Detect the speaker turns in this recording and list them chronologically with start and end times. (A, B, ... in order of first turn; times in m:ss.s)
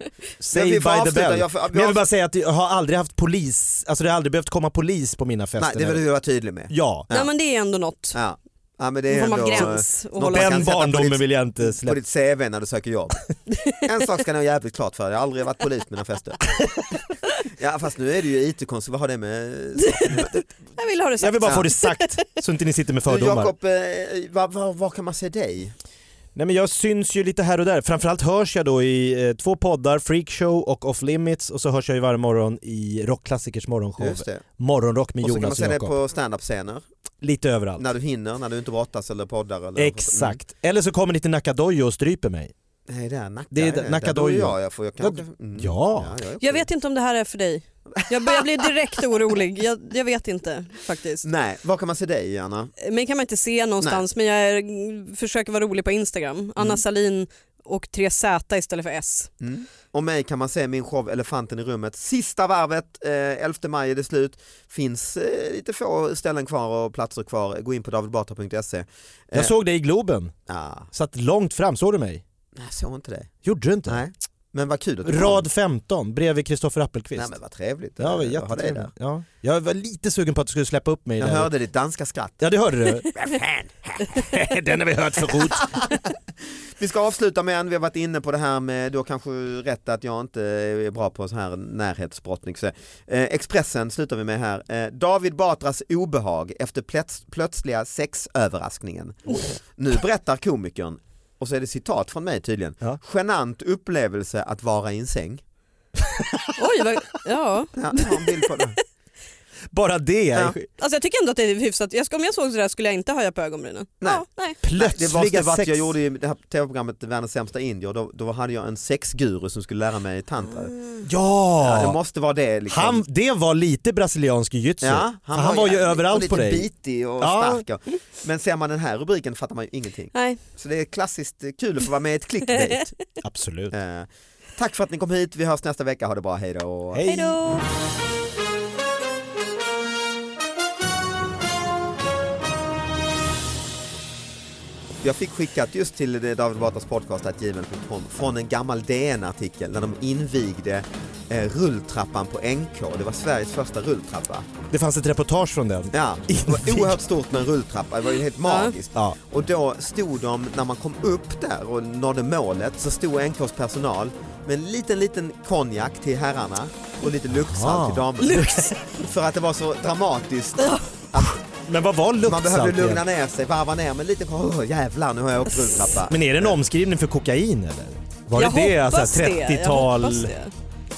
0:00.4-0:06.0 A
0:00.5-0:02.0 B
0:05.6-0:07.3 B
0:06.7-0:07.1 A
0:07.1-0:08.2 C
0:08.1-0:13.2 B
0:09.1-0:10.7 C
0:10.2-0:12.0 A
0:13.5-0:13.8 C
0:13.8-0:16.4 B
0:17.6-0:20.4 B
0:19.8-0:22.2 C
0:21.2-0:23.5 A
0:23.0-0:25.7 B
0:26.3-0:35.9 A
0:34.0-0:34.4 B
0:35.2-0:36.8 B
0:37.2-0:37.8 A
0:37.8-0:40.4 B
0:39.8-0:42.5 A
0:42.9-0:46.7 B
0:43.5-0:46.1 A
0:46.4-0:51.2 C
0:48.0-0:48.7 B
0:51.2-0:52.7 B
0:52.8-0:59.3 C
0:56.6-0:56.8 B
0:59.4-1:09.5 B
1:09.3-1:10.3 A
1:10.5-1:10.9 B
1:10.9-1:12.2 A
1:12.5-1:13.3 B
1:13.4-1:14.0 A
1:13.8-1:15.4 B
1:15.0-1:17.3 A
1:17.2-1:18.9 B
1:18.0-1:21.5 A
1:21.2-1:22.5 B
1:22.4-1:23.5 A
1:23.1-1:24.3 B
1:24.0-1:25.8 A
1:25.2-1:26.2 B
1:26.8-1:45.4 B
1:46.0-1:46.5 A
1:46.6-1:48.5 C
1:47.7-1:48.8 B
1:49.7-1:50.7 A
1:50.8-1:54.6 C
1:54.0-2:00.7 B
1:54.6-1:55.9 A
2:00.6-2:01.0 C
2:01.0-2:02.0 A
2:01.6-2:03.0 B
2:02.7-2:06.7 A
2:04.8-2:12.9 B
2:07.2-2:07.6 A
2:10.1-2:10.4 C
2:13.2-2:13.7 A
2:13.7-2:17.0 B
2:16.9-2:17.4 A
2:17.0-2:17.6 C
2:25.0-2:34.5 B
2:34.7-2:37.0 A
2:35.9-2:51.4 B
2:38.4-2:38.7 C
2:47.3-2:48.5 A
2:48.2-2:48.8 C
2:50.6-2:50.9 C
2:51.4-2:53.0 A
2:52.2-2:56.6 B
2:56.1-3:00.3 A
2:58.3-3:00.5 C